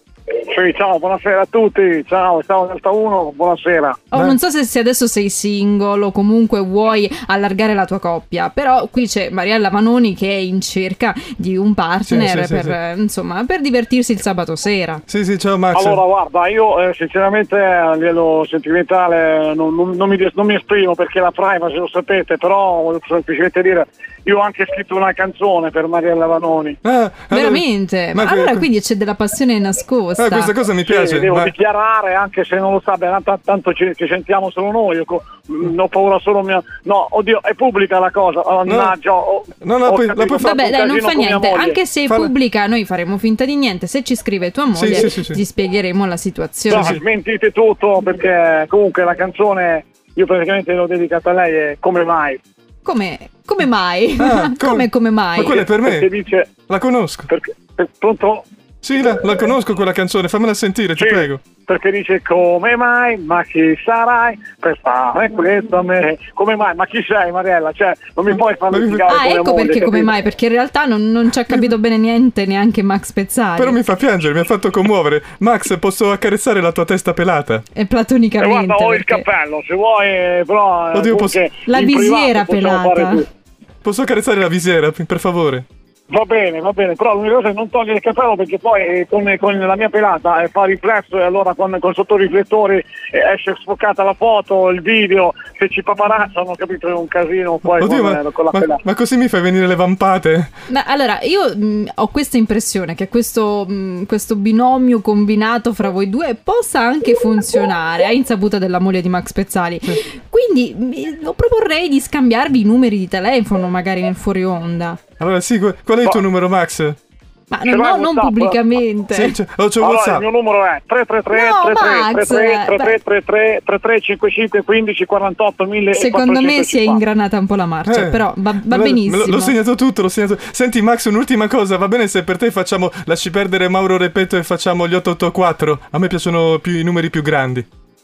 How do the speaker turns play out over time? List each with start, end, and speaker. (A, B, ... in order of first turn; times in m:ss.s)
0:00.5-0:04.0 A
0:04.1-0:15.0 B
0:12.1-0:12.8 C
0:15.1-0:16.0 C
0:15.7-0:26.8 A
0:26.8-0:28.6 C
0:27.3-0:30.5 B
0:30.2-0:31.5 C
0:30.8-0:41.8 A
0:38.7-0:38.9 C
0:39.6-0:40.6 C
0:40.4-0:47.0 B
0:44.7-0:45.4 C
0:46.7-0:52.4 A
0:46.7-0:47.0 C
0:52.8-0:55.6 B
0:54.2-0:56.1 C
0:55.5-0:56.5 A
0:56.7-0:57.3 C
0:57.3-0:58.4 A
0:58.8-1:01.4 C
1:01.0-1:10.1 A
1:08.7-1:09.1 C
1:09.1-1:13.8 B
1:13.6-1:17.6 C
1:17.7-1:19.2 B
1:18.4-1:23.3 A
1:20.9-1:21.4 C
1:21.7-1:23.2 B
1:23.8-1:25.6 C
1:26.1-1:38.8 A
1:37.8-1:40.5 C
1:40.7-1:55.0 B
1:55.2-1:57.0 C
1:57.5-1:59.4 B
1:57.7-1:58.6 A
1:59.1-2:00.2 C
1:59.8-2:07.0 A
2:01.3-2:03.0 B
2:05.9-2:09.5 B
2:07.8-2:17.6 C